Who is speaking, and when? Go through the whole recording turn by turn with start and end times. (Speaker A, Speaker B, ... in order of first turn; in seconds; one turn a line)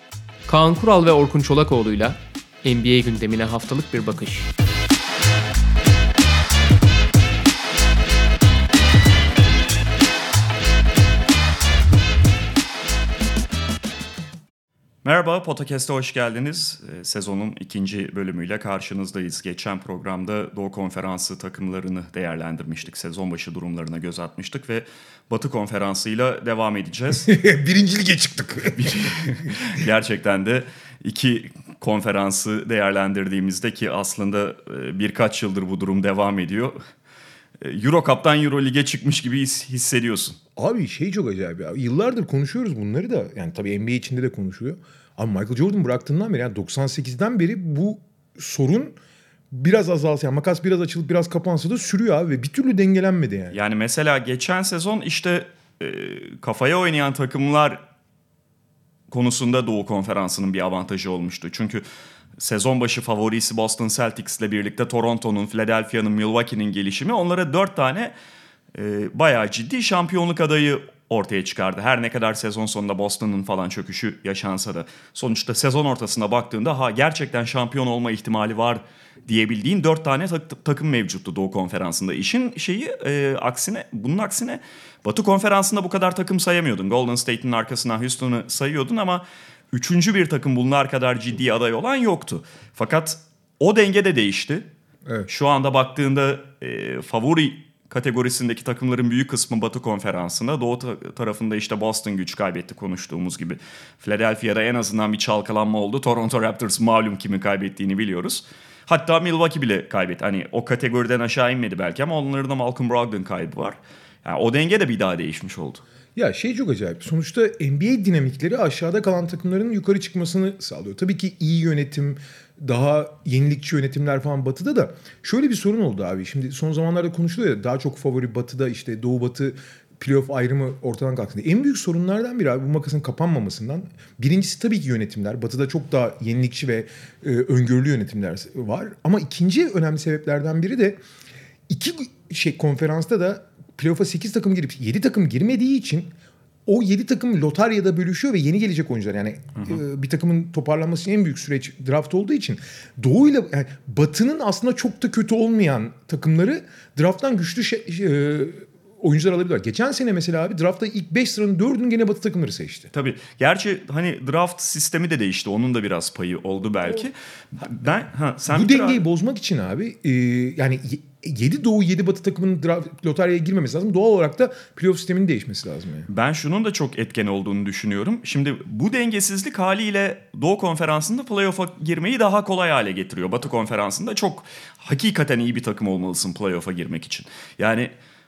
Speaker A: 0.5-4.5
Speaker B: 15.0-27.3
Speaker C: 27.3-29.5
Speaker B: 28.7-36.8
Speaker B: 37.6-40.4
Speaker C: 40.6-49.0
Speaker C: 49.5-53.6
Speaker B: 53.5-57.8
Speaker B: 59.1-61.8
Speaker B: 62.4-68.1
Speaker B: 68.7-94.7
Speaker B: 95.3-115.8
Speaker C: 116.2-141.0
Speaker C: 141.7-146.1
Speaker C: 146.7-162.9
Speaker B: 162.9-169.0
Speaker C: 168.5-176.1
Speaker B: 176.1-187.9